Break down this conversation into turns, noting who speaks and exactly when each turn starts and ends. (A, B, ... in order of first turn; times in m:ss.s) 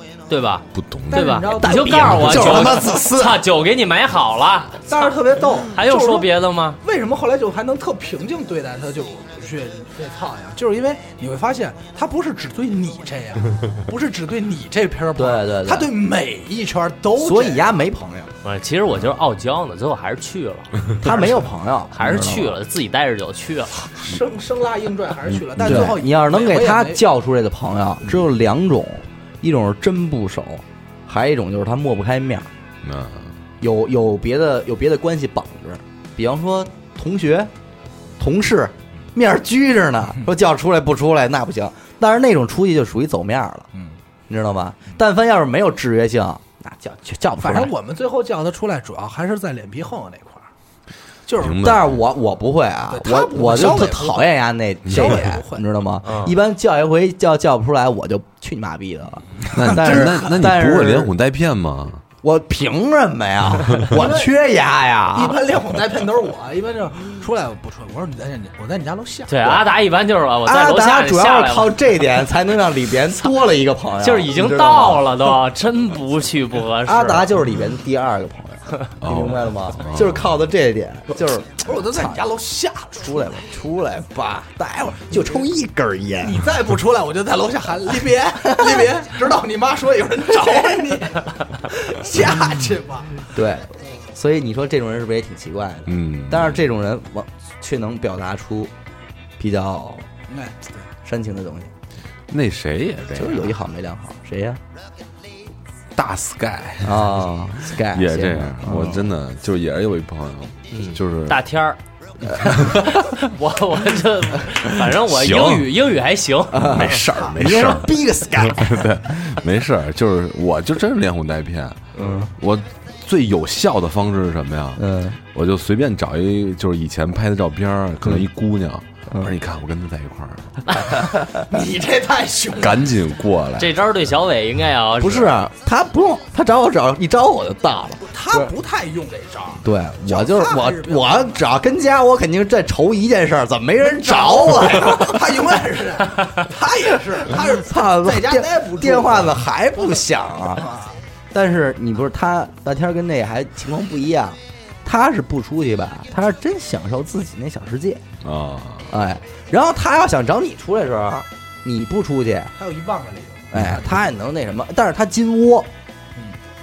0:00.3-0:06.8 A
0:00.7-0:01.4 B
0:01.1-0:03.1 C
0:01.6-0:03.4 D
0:04.9-0:17.8 C
0:15.2-0:15.9 D
0:17.2-0:18.3 D
0:18.4-0:21.3 A
0:21.0-0:22.6 D
0:21.9-0:24.0 A
0:24.0-0:27.0 C
0:25.3-0:25.9 B
0:25.6-0:32.5 D
0:32.8-0:33.4 B
0:33.6-0:37.5 D
0:38.2-0:43.7 D
0:44.3-0:47.7 D
0:47.4-0:50.5 C
0:51.2-0:51.7 C
0:51.4-0:52.0 B
0:51.6-1:01.1 D
0:52.9-0:54.3 C
0:54.9-0:55.6 C
0:56.0-0:56.3 A
0:59.4-1:00.4 C
0:59.5-1:02.0 B
1:02.2-1:05.4 D
1:03.8-1:04.3 C
1:05.1-1:09.7 C
1:09.3-1:11.8 A
1:10.4-1:15.1 D
1:14.0-1:17.3 A
1:16.8-1:22.2 D
1:19.0-1:20.3 B
1:21.6-1:23.4 C
1:23.0-1:26.4 D
1:26.2-1:33.3 C
1:28.4-1:28.9 D
1:33.3-1:38.7 D
1:35.8-1:36.6 B
1:39.4-1:40.1 D
1:40.3-1:40.8 C
1:41.0-1:41.7 D
1:42.3-1:43.5 B
1:43.1-1:44.6 D
1:45.9-1:51.4 B
1:46.8-1:49.0 D
1:50.7-1:51.8 A
1:52.2-1:53.1 B
1:52.4-1:57.0 A
1:54.7-1:55.7 B
1:56.5-1:58.9 D
1:56.6-2:10.8 B
2:01.9-2:02.3 D
2:04.8-2:05.2 D
2:10.8-2:11.5 D
2:11.5-2:12.9 C
2:12.5-2:13.8 B
2:13.6-2:15.4 A
2:15.0-2:18.5 D
2:18.0-2:21.4 C
2:19.6-2:25.2 D
2:24.0-2:29.4 C
2:27.3-2:30.7 D
2:30.5-2:31.0 C
2:31.3-2:38.0 D
2:38.2-2:38.9 B
2:38.9-2:42.5 D
2:42.6-2:43.8 C
2:43.5-2:45.7 D